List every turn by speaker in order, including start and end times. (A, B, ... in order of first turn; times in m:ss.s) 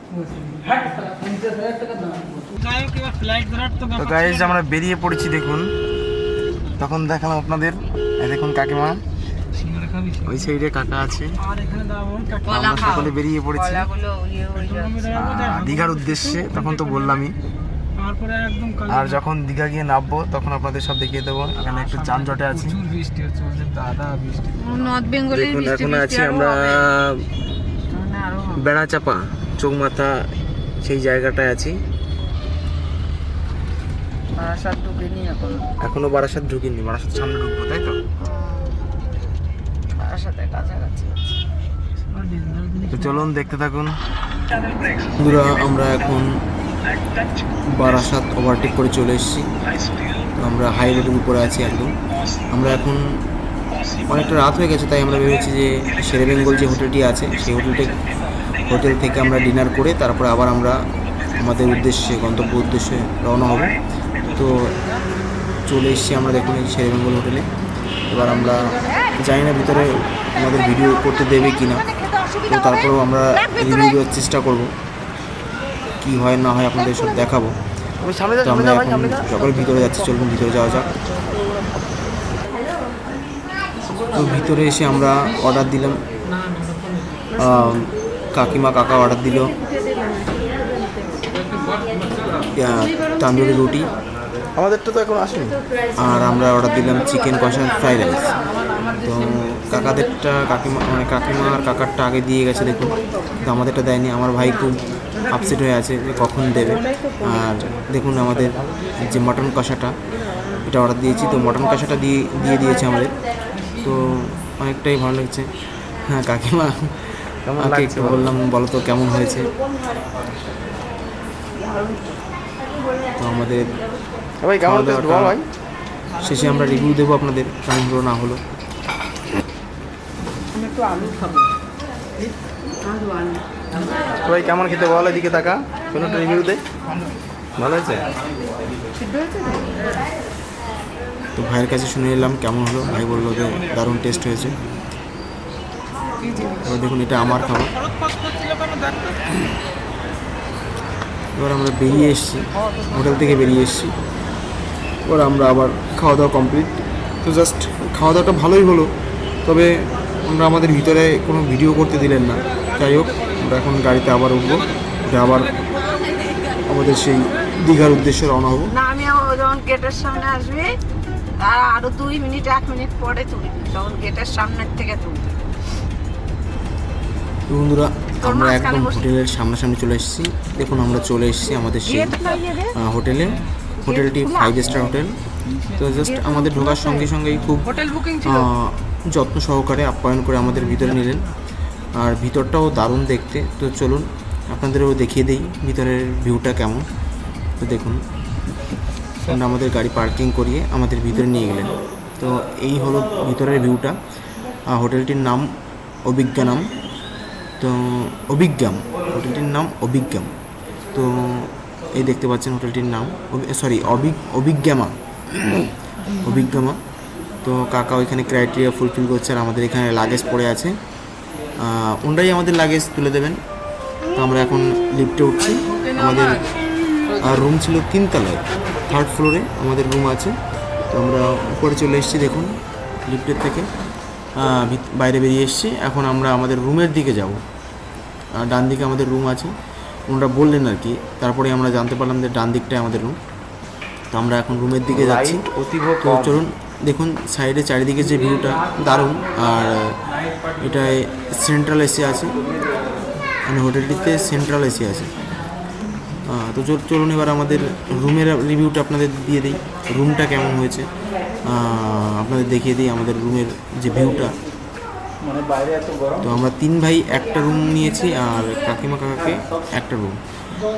0:02.6-0:04.4 A
0:03.9-0:05.7 B
0:06.8-0:09.0 B
0:09.7-0:10.1 A
0:10.1-0:11.4 B
0:11.5-0:12.4 A
0:12.4-0:13.9 B
0:12.5-0:13.1 C
0:13.7-0:15.1 C
0:14.8-0:16.6 A
0:15.1-0:17.4 B
0:18.0-0:18.9 A
0:18.8-0:22.8 B
0:22.9-0:24.7 A
0:24.5-0:26.9 C
0:25.2-0:27.2 B
0:27.9-0:28.6 C
0:28.5-0:30.3 B
0:30.8-0:31.8 B
0:34.4-0:35.7 C
0:35.8-0:38.0 B
0:38.2-0:38.8 C
0:40.0-0:41.4 C
0:42.2-0:42.9 A
0:42.9-0:43.9 B
0:45.2-0:46.4 B
0:47.7-0:49.5 B
0:50.4-0:52.0 B
0:52.5-0:53.2 B
0:54.0-0:58.0 B
0:58.6-1:00.8 B
1:01.4-1:03.8 B
1:04.3-1:04.8 B
1:05.7-1:07.5 B
1:08.1-1:11.9 B
1:12.1-1:12.3 C
1:12.4-1:14.7 B
1:16.0-1:17.6 B
1:18.0-1:19.0 C
1:18.4-1:20.9 B
1:21.0-1:22.1 C
1:24.1-1:26.0 B
1:27.4-1:29.5 B
1:29.9-1:31.0 C
1:32.6-1:33.9 B
1:35.9-1:50.0 B
1:50.6-1:53.1 B
1:53.8-1:55.5 B
1:56.0-1:57.1 B
1:57.5-1:58.2 D
1:57.6-1:59.5 B
2:01.7-2:02.0 C
2:03.2-2:03.8 B
2:04.4-2:05.2 D
2:04.6-2:05.4 B
2:06.2-2:08.4 B
2:10.6-2:11.4 C
2:13.1-2:13.4 C
2:14.2-2:15.4 D
2:15.9-2:16.6 B
2:17.6-2:18.0 B
2:19.0-2:20.0 C
2:21.4-2:24.6 B
2:26.2-2:26.6 C
2:26.6-2:27.7 B
2:31.4-2:34.0 B
2:35.0-2:38.9 B
2:39.4-2:45.5 B
2:46.7-2:48.7 B
2:48.7-2:50.8 C
2:51.4-2:55.3 C
2:57.5-3:05.2 B
2:58.2-2:58.9 C
3:02.2-3:02.7 C
3:05.7-3:11.3 B
3:12.0-3:16.8 B
3:17.6-3:18.0 B
3:19.2-3:23.9 B
3:24.7-3:25.5 B
3:26.0-3:26.7 B
3:27.6-3:30.3 B
3:30.9-3:36.8 B
3:37.4-3:40.8 B
3:41.6-3:43.4 B
3:44.1-3:46.5 B
3:47.1-3:50.4 B
3:50.9-3:53.7 B
3:54.3-3:57.4 B
3:58.4-3:59.5 B
4:00.1-4:03.2 B
4:04.1-4:05.4 B
4:05.0-4:06.2 D
4:06.0-4:10.0 B
4:10.6-4:12.4 B
4:13.5-4:15.1 B
4:16.2-4:20.9 B
4:21.4-4:24.4 B
4:26.2-4:30.2 B